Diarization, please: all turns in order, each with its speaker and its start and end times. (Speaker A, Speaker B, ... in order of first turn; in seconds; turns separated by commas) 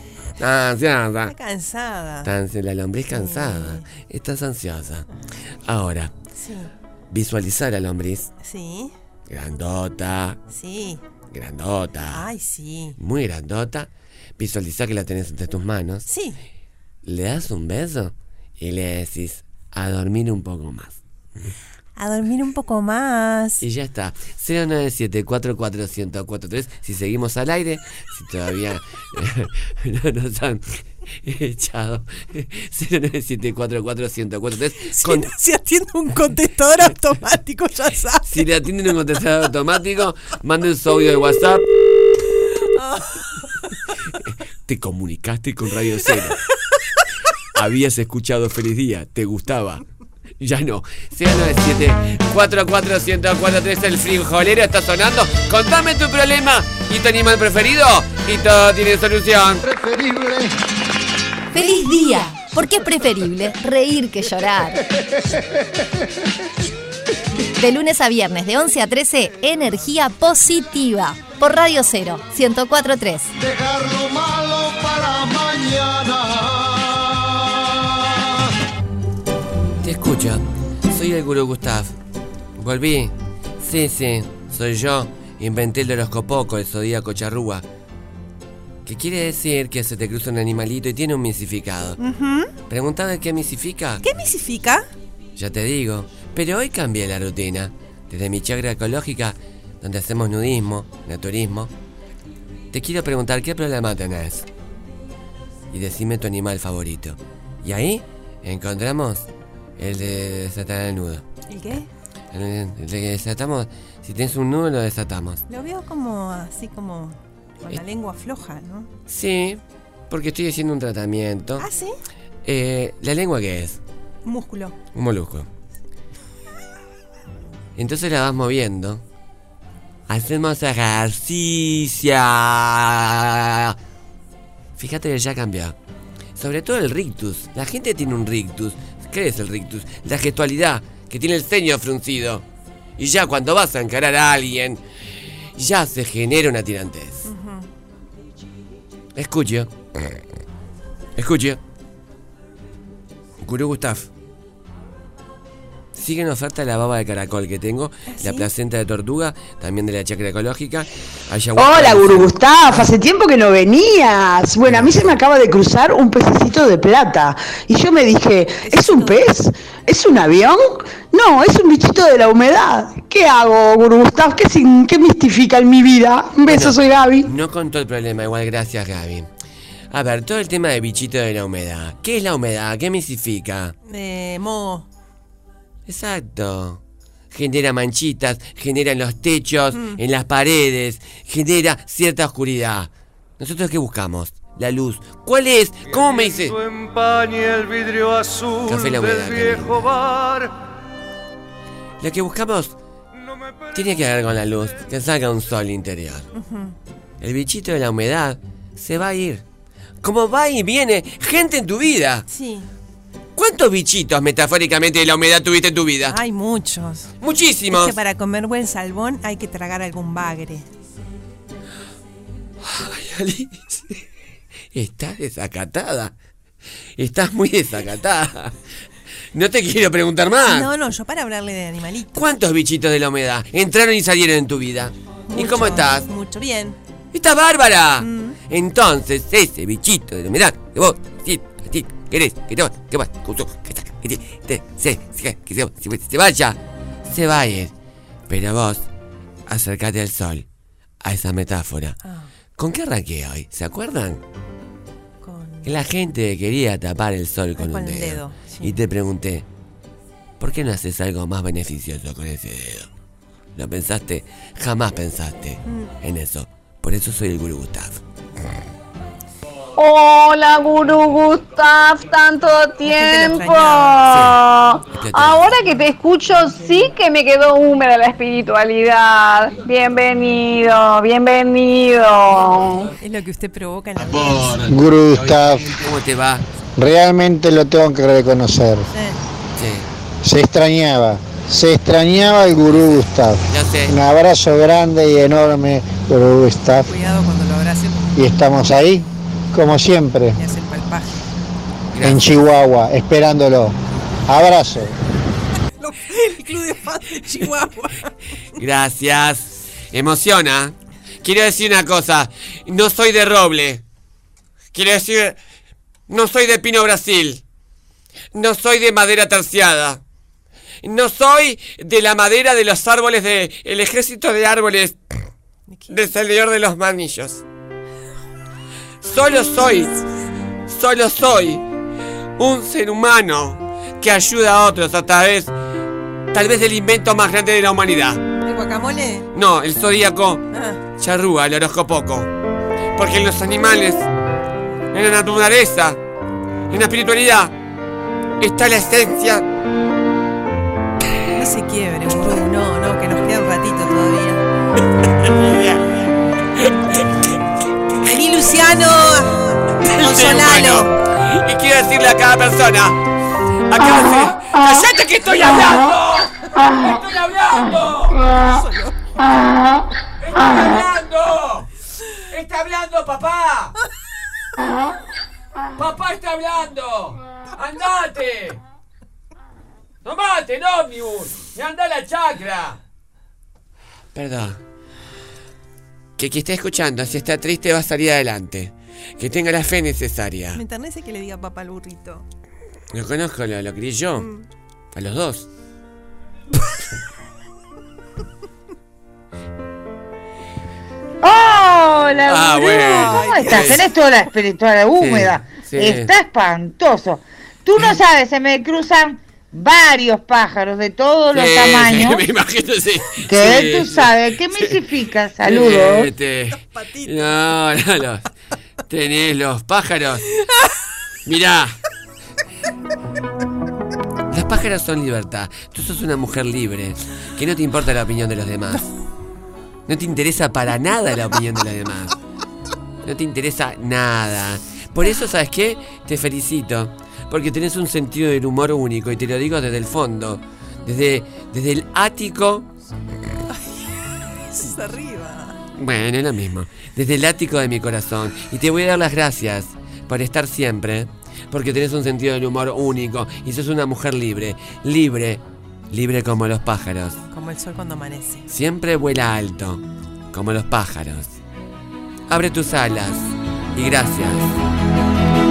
Speaker A: 0.4-1.3, Speaker B: 1.2-2.3, Speaker A: 2.2-5.1, Speaker B: 3.1-3.9, Speaker A: 5.7-6.1, Speaker B: 6.3-6.7, Speaker A: 7.1-8.3, Speaker B: 8.4-8.9, Speaker A: 9.3-10.4, Speaker B: 10.5-11.0, Speaker A: 11.3-12.3, Speaker B: 12.1-13.0, Speaker A: 13.0-16.1, Speaker B: 16.1-16.4, Speaker A: 17.0-21.0, Speaker B: 21.9-23.6, Speaker A: 23.6-35.3, Speaker B: 34.9-38.3, Speaker A: 38.2-41.7, Speaker B: 42.8-43.3, Speaker A: 44.6-46.4, Speaker A: 47.5-49.8, Speaker A: 50.4-59.6, Speaker C: 61.5-64.8, Speaker C: 67.6-73.3, Speaker A: 79.8-81.9, Speaker A: 82.6-87.6, Speaker A: 88.8-92.0, Speaker B: 92.0-92.5, Speaker A: 92.7-94.0, Speaker B: 94.0-94.9, Speaker A: 95.3-101.7, Speaker A: 102.7-104.5, Speaker A: 105.7-109.3, Speaker A: 109.8-111.2, Speaker B: 111.5-111.9, Speaker A: 112.3-115.4, Speaker B: 115.5-118.9, Speaker A: 119.1-121.7, Speaker B: 121.6-121.9, Speaker A: 122.4-123.8, Speaker B: 124.2-124.7, Speaker A: 124.9-125.5, Speaker A: 127.8-129.0, Speaker A: 130.1-133.8, Speaker A: 134.8-135.8, Speaker A: 136.3-142.4, Speaker A: 143.0-144.8, Speaker A: 145.5-147.3, Speaker B: 147.2-147.7, Speaker A: 149.1-150.2, Speaker A: 151.2-151.6, Speaker A: 153.4-154.1, Speaker A: 155.9-162.4, Speaker B: 158.1-158.5, Speaker A: 164.7-165.0, Speaker B: 168.6-169.3, Speaker A: 176.4-179.3, Speaker A: 179.9-183.7, Speaker B: 183.8-184.9, Speaker A: 185.8-186.8, Speaker A: 187.3-196.6, Speaker B: 189.7-190.0, Speaker D: 195.9-200.5, Speaker A: 198.6-199.8, Speaker A: 202.0-202.7, Speaker A: 203.7-206.3, Speaker B: 206.3-206.7, Speaker A: 207.2-209.4, Speaker A: 210.0-212.2, Speaker B: 212.3-212.7, Speaker A: 213.3-216.2, Speaker B: 216.1-217.1, Speaker A: 217.2-217.9, Speaker B: 217.7-220.7, Speaker A: 222.6-224.0, Speaker A: 224.7-226.1, Speaker A: 227.0-228.5, Speaker A: 229.3-230.7, Speaker B: 230.4-232.2, Speaker A: 232.1-236.1, Speaker B: 235.3-236.8, Speaker A: 237.1-247.7, Speaker B: 238.0-238.4, Speaker A: 248.3-248.8, Speaker A: 249.5-250.4, Speaker A: 251.0-252.0, Speaker B: 252.0-252.3, Speaker A: 252.6-254.2, Speaker B: 255.2-255.8, Speaker A: 255.6-259.4, Speaker B: 257.6-258.7, Speaker A: 260.4-262.9, Speaker A: 263.5-268.0, Speaker E: 269.8-282.9, Speaker B: 272.8-274.0, Speaker A: 274.1-274.4, Speaker A: 275.0-275.5, Speaker B: 283.0-284.6, Speaker A: 284.0-286.4, Speaker F: 284.7-285.8, Speaker F: 286.8-288.9, Speaker B: 288.9-289.2, Speaker A: 289.6-289.9, Speaker F: 290.2-296.9, Speaker A: 292.7-293.9, Speaker B: 296.8-298.1, Speaker F: 298.1-300.4, Speaker B: 300.3-301.2, Speaker A: 301.9-302.4, Speaker F: 302.0-303.8, Speaker F: 304.3-304.9, Speaker B: 305.8-308.1, Speaker A: 308.6-313.8, Speaker A: 314.7-315.4, Speaker A: 316.1-317.4, Speaker A: 318.3-320.0, Speaker A: 320.8-325.0, Speaker B: 325.7-325.9, Speaker A: 325.9-327.4, Speaker A: 329.0-329.9, Speaker A: 330.7-331.6, Speaker A: 332.4-335.5, Speaker A: 336.3-338.2, Speaker B: 338.4-339.3, Speaker A: 339.3-340.4, Speaker B: 340.5-340.8, Speaker A: 341.0-342.3, Speaker A: 342.9-344.1, Speaker A: 344.9-346.0, Speaker A: 346.7-347.5, Speaker A: 348.4-349.4, Speaker B: 351.3-354.4, Speaker A: 355.3-355.8, Speaker A: 356.6-357.1, Speaker B: 358.0-360.9, Speaker A: 359.8-363.0, Speaker A: 363.7-368.2, Speaker B: 368.4-369.0, Speaker A: 370.2-371.7, Speaker A: 372.3-373.7, Speaker A: 375.8-378.6, Speaker A: 380.0-382.8, Speaker A: 384.1-384.6, Speaker A: 386.2-390.6, Speaker B: 390.5-392.2, Speaker A: 392.9-394.3, Speaker B: 394.2-394.4, Speaker A: 394.9-395.5, Speaker G: 401.2-412.2, Speaker A: 402.3-403.9, Speaker B: 402.8-403.8, Speaker A: 405.0-406.1, Speaker A: 411.3-414.8, Speaker G: 413.3-416.1, Speaker A: 415.4-418.2, Speaker B: 416.6-417.5, Speaker A: 418.9-420.3, Speaker A: 421.2-421.8, Speaker A: 424.3-428.9, Speaker A: 429.9-432.1, Speaker A: 433.0-442.7, Speaker B: 443.5-445.6, Speaker A: 445.8-457.2, Speaker B: 457.3-458.5, Speaker A: 458.5-461.3, Speaker A: 462.3-464.5